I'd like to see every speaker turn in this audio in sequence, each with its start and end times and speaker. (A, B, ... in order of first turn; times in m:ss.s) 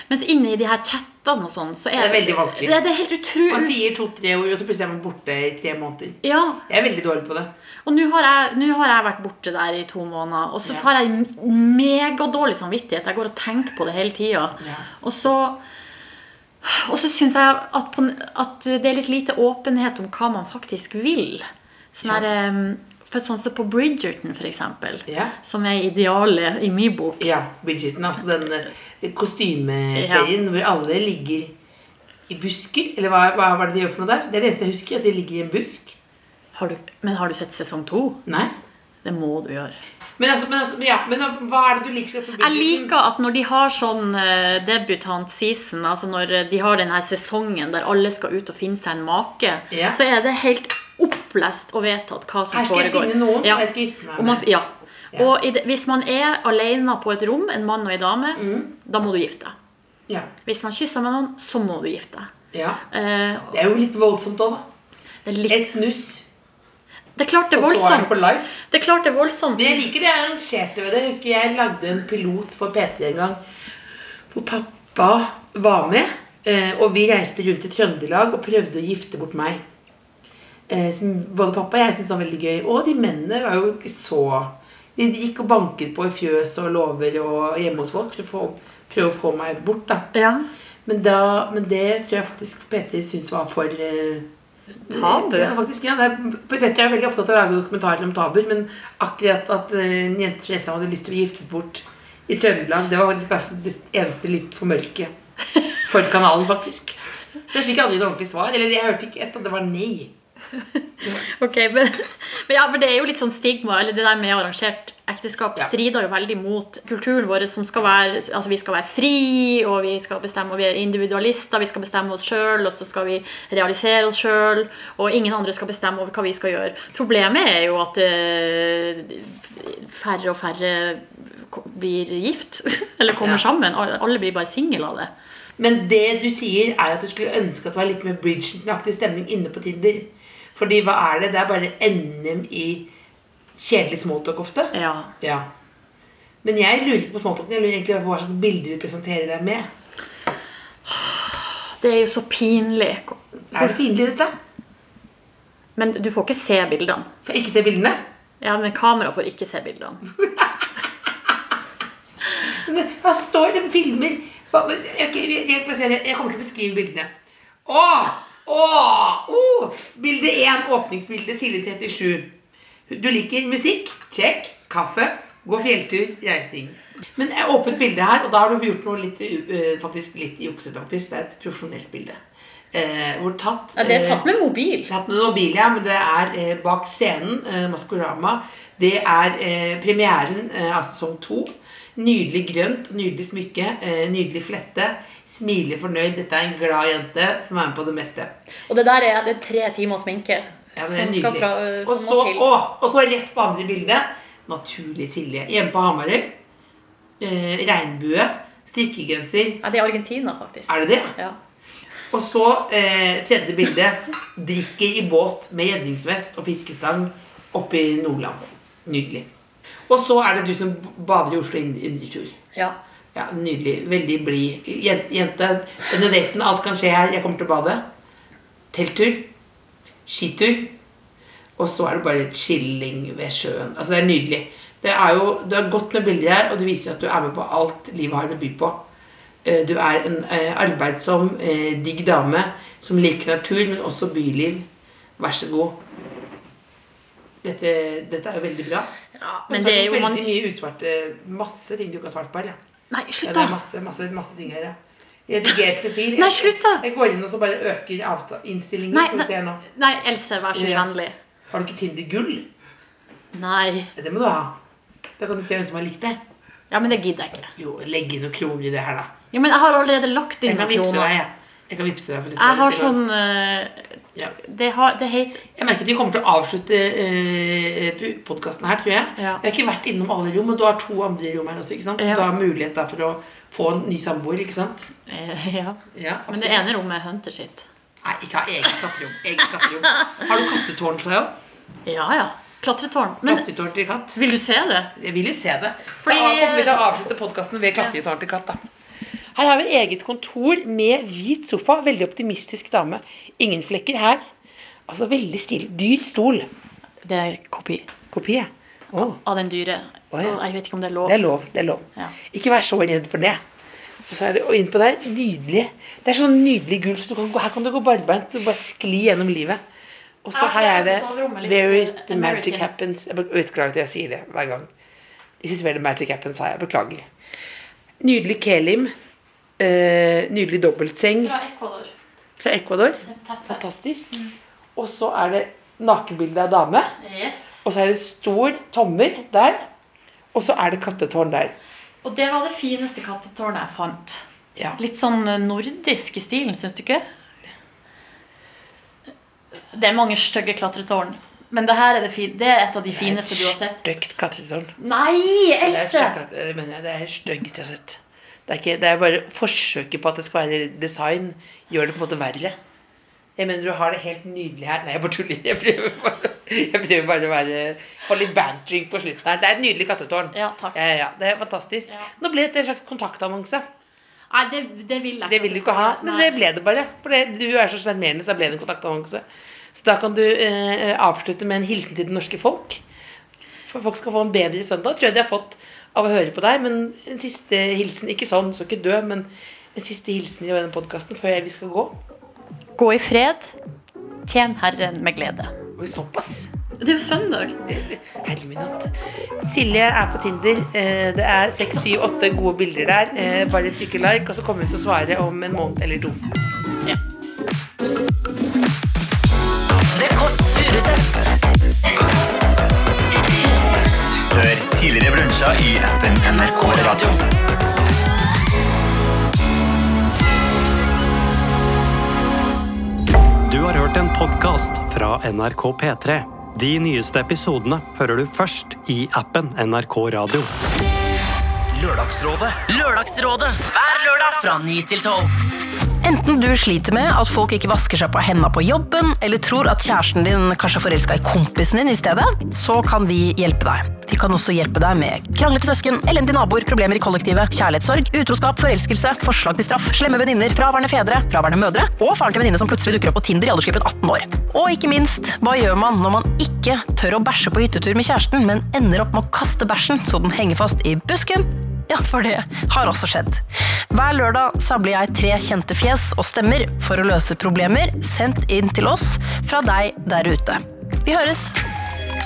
0:00.1-0:03.8 A
0:02.0-0:02.8 B
0:03.5-0:07.5 B
0:06.2-0:06.6 A
0:07.9-0:15.6 A
0:14.6-0:14.9 B
0:16.6-0:27.3 A
0:25.1-0:25.4 B
0:27.2-0:31.5 B
0:30.0-0:30.3 A
0:32.3-0:36.0 B
0:36.5-0:38.3 A
0:38.3-0:38.5 B
0:39.0-0:39.8 A
0:40.2-0:42.9 B
0:42.4-0:59.6 A
0:49.7-0:50.0 B
0:52.5-0:54.4 B
0:58.4-0:58.7 B
1:00.4-1:02.3 A
1:02.5-1:02.8 B
1:02.9-1:03.5 A
1:03.5-1:04.7 B
1:05.2-1:05.7 A
1:05.5-1:06.2 B
1:07.2-1:09.8 A
1:07.5-1:08.6 B
1:09.6-1:13.4 B
1:14.3-1:19.6 B
1:20.7-1:30.1 B
1:30.1-1:30.5 A
1:30.8-1:34.3 B
1:34.8-1:35.5 A
1:34.9-1:45.1 B
1:45.8-1:47.0 B
1:47.5-1:50.1 B
1:51.0-2:15.1 A
2:15.6-2:22.9 B
2:23.6-2:25.5 B
2:24.7-2:25.1 A
2:26.4-2:29.7 B
2:30.9-2:33.7 A
2:33.5-2:34.3 B
2:35.8-2:37.1 A
2:37.2-2:38.0 B
2:38.4-2:40.0 A
2:40.2-2:40.5 B
2:42.4-2:47.1 B
2:47.7-2:52.3 B
2:52.9-3:02.2 B
3:02.7-3:04.3 B
3:03.8-3:04.9 A
3:04.9-3:18.4 B
3:18.7-3:22.5 A
3:20.8-3:26.4 B
3:27.2-3:29.6 B
3:29.6-3:31.4 A
3:30.7-3:31.2 B
3:32.1-3:39.3 B
3:39.9-3:42.4 B
3:43.1-3:47.9 B
3:48.7-3:49.3 B
3:50.1-3:50.7 B
3:51.6-3:58.8 B
3:59.4-4:04.7 B
4:05.2-4:05.8 B
4:07.4-4:08.9 B
4:09.2-4:10.4 A
4:09.5-4:12.6 B
4:12.9-4:13.6 A
4:13.2-4:14.8 B
4:15.3-4:19.6 B
4:16.2-4:16.8 A
4:18.9-4:21.2 A
4:20.5-4:20.9 B
4:21.5-4:22.5 B
4:23.3-4:23.9 A
4:24.0-4:24.6 B
4:25.2-4:26.2 B
4:26.7-4:27.5 A
4:27.6-4:29.1 B
4:29.3-4:31.1 A
4:30.5-4:33.0 B
4:32.4-4:35.4 A
4:35.6-4:44.9 B
4:39.2-4:39.4 A
4:42.0-4:42.3 A
4:45.1-4:47.7 A
4:45.9-4:46.8 B
4:48.0-4:51.4 B
4:49.5-4:50.2 A
4:51.9-4:53.5 A
4:53.2-4:54.2 B
4:54.2-4:54.9 A
4:55.0-4:58.6 B
4:56.0-4:57.0 A
4:59.4-5:04.3 B
5:04.9-5:06.5 B
5:07.0-5:07.9 A
5:08.1-5:09.2 B
5:08.9-5:11.2 A
5:10.1-5:10.4 B
5:11.0-5:13.4 B
5:14.1-5:19.6 B
5:20.2-5:24.7 B
5:20.3-5:22.7 A
5:25.4-5:27.1 B
5:28.0-5:28.9 B
5:29.6-5:31.3 B
5:31.2-5:31.9 A
5:32.4-5:34.2 B
5:33.0-5:34.3 A
5:34.8-5:36.9 B
5:37.0-5:37.6 A
5:37.6-5:39.7 B
5:40.3-5:41.6 B
5:42.0-5:44.2 A
5:44.8-5:47.0 A
5:49.7-5:53.8 A
5:52.9-5:54.8 B
5:54.8-5:56.2 A
5:55.6-6:02.6 B
6:03.4-6:13.7 B
6:10.3-6:10.8 A
6:14.3-6:16.4 A
6:15.3-6:22.8 B
6:23.7-6:32.0 B
6:32.8-6:33.6 A
6:34.2-6:35.6 A
6:35.8-6:36.5 B
6:36.8-6:37.6 A
6:37.6-6:38.9 B
6:39.4-6:46.2 B
6:49.9-6:51.4 C
6:54.3-6:57.2 D
6:56.2-6:57.2 C
7:03.5-7:10.5 E
7:11.7-7:12.6 D
7:12.7-7:15.3 C
7:16.0-7:51.6 F